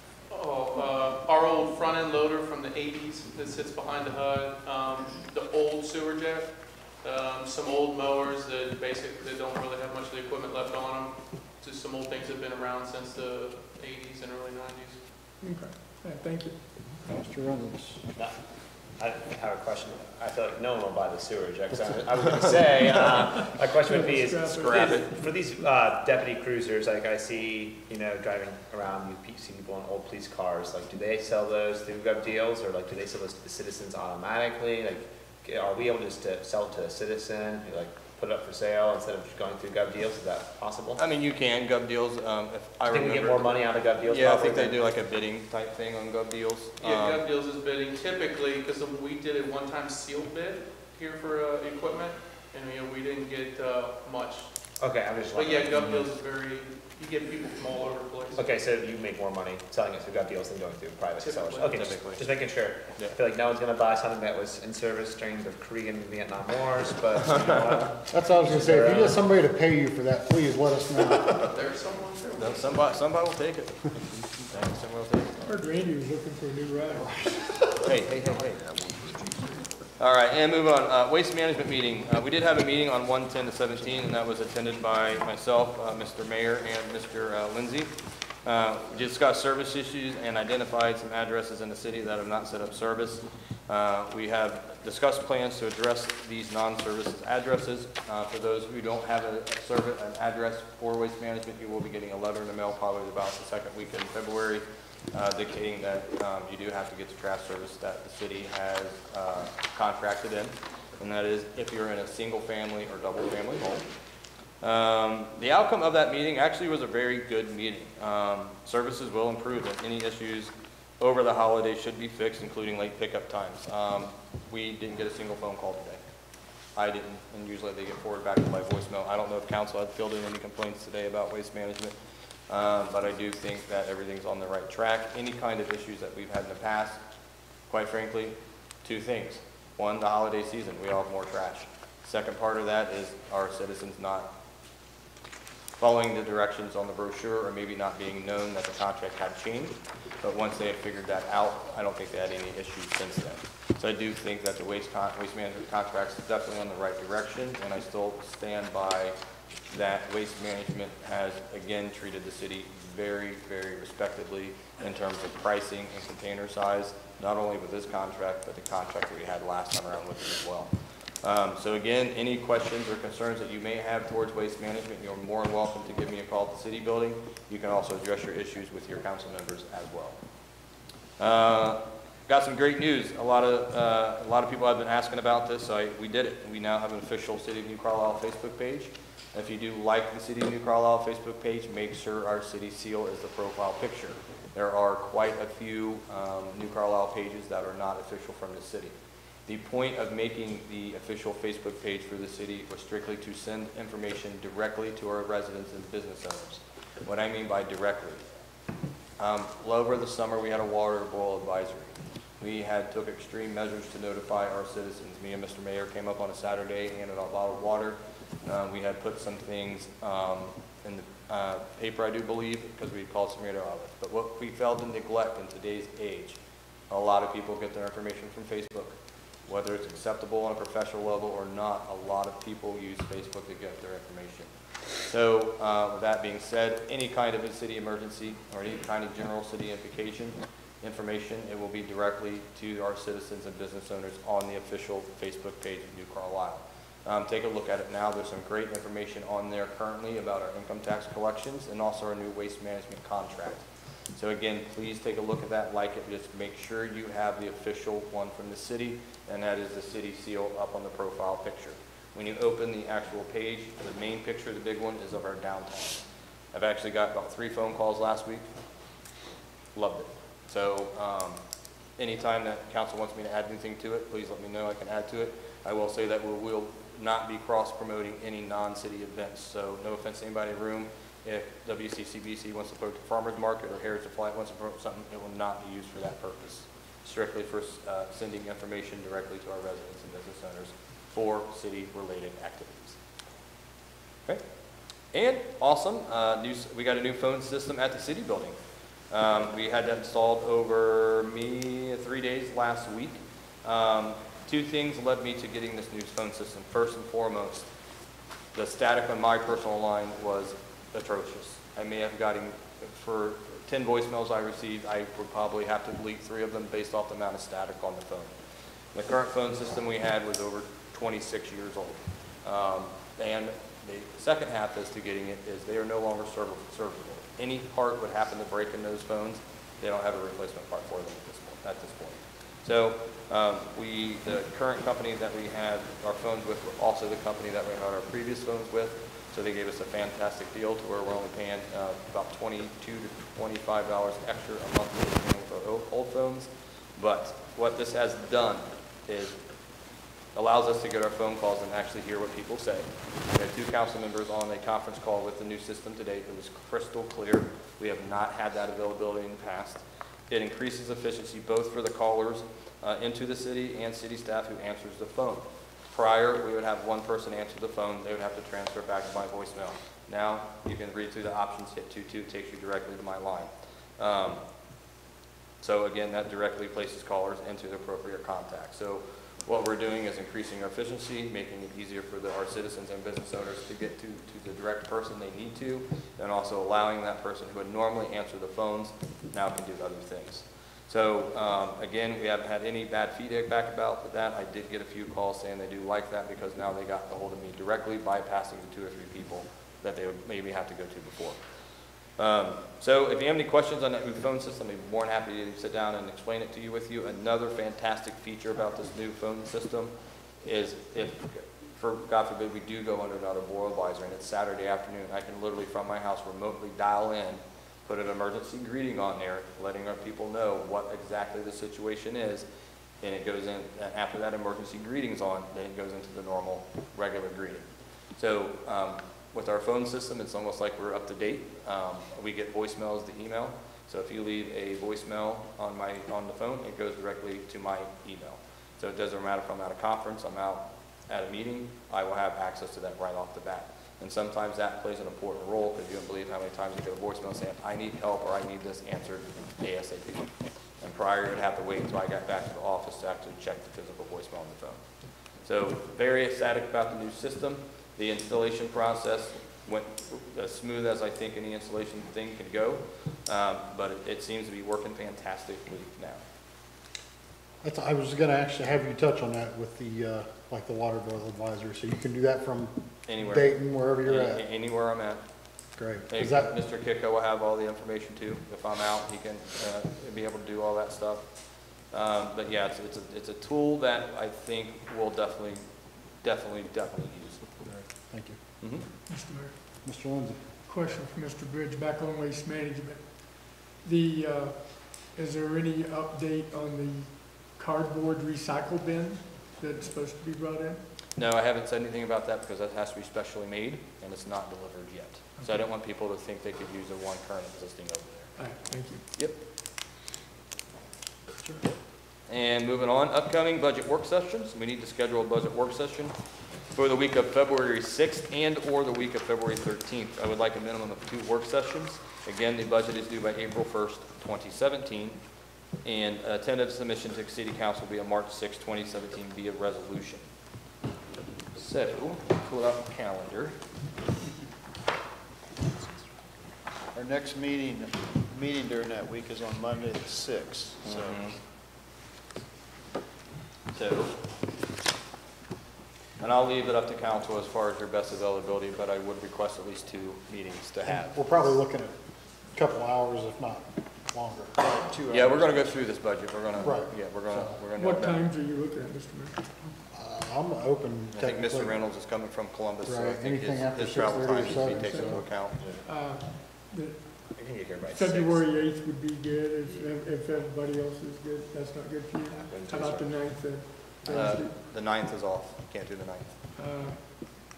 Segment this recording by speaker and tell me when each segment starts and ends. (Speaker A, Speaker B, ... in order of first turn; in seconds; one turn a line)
Speaker A: 0.3-15.0
Speaker B: 15.4-16.6
Speaker C: 17.1-18.1
Speaker D: 19.0-41.0
Speaker B: 23.3-25.2
Speaker E: 24.6-25.1
Speaker E: 41.0-47.2
Speaker D: 42.9-44.8
Speaker A: 46.8-54.5
Speaker D: 54.8-56.1
Speaker A: 55.3-58.5
Speaker D: 58.4-69.2
Speaker A: 61.2-61.8
Speaker E: 61.6-62.3
Speaker E: 67.2-67.8
Speaker C: 68.1-71.4
Speaker A: 71.4-72.8
Speaker E: 72.3-75.5
Speaker B: 75.4-77.1
Speaker E: 77.8-79.0
Speaker E: 80.0-87.9
Speaker E: 88.4-113.8
Speaker E: 114.6-126.0
Speaker E: 126.8-132.0
Speaker E: 132.5-137.0
Speaker E: 137.7-144.3
Speaker E: 145.8-159.1
Speaker E: 159.7-170.7
Speaker E: 171.2-180.2
Speaker E: 181.2-198.9
Speaker E: 199.5-208.2
Speaker E: 209.2-226.4
Speaker E: 226.9-268.5
Speaker E: 269.8-271.4
Speaker E: 272.0-293.0
Speaker E: 295.1-298.6
Speaker E: 299.1-307.7
Speaker E: 308.5-318.3
Speaker E: 318.9-349.4
Speaker E: 350.4-374.4
Speaker E: 375.6-401.4
Speaker E: 402.2-422.5
Speaker E: 423.0-454.9
Speaker E: 455.4-466.2
Speaker C: 467.6-474.4
Speaker E: 473.1-475.2
Speaker C: 475.8-476.5
Speaker E: 476.1-481.3
Speaker E: 481.9-485.6
Speaker E: 486.2-487.6
Speaker C: 487.7-488.4
Speaker E: 488.6-488.9
Speaker B: 489.1-489.6
Speaker C: 489.9-490.4
Speaker B: 490.7-500.8
Speaker E: 501.2-508.3
Speaker B: 505.4-505.6
Speaker B: 508.4-509.1
Speaker E: 512.3-516.1
Speaker E: 516.7-525.2
Speaker E: 525.8-530.3
Speaker E: 531.5-533.5
Speaker F: 536.9-541.3
Speaker E: 540.9-541.4
Speaker E: 543.7-544.2
Speaker E: 546.2-551.4
Speaker C: 550.9-551.9
Speaker C: 552.5-554.5
Speaker F: 554.6-555.8
Speaker E: 555.1-558.3
Speaker C: 556.6-557.6
Speaker B: 557.8-559.5
Speaker C: 559.9-561.8
Speaker E: 561.1-565.6
Speaker C: 562.9-565.2
Speaker B: 564.5-567.1
Speaker D: 565.6-565.9
Speaker D: 567.3-568.6
Speaker B: 567.9-574.6
Speaker D: 572.4-573.2
Speaker E: 574.1-576.3
Speaker B: 576.5-577.2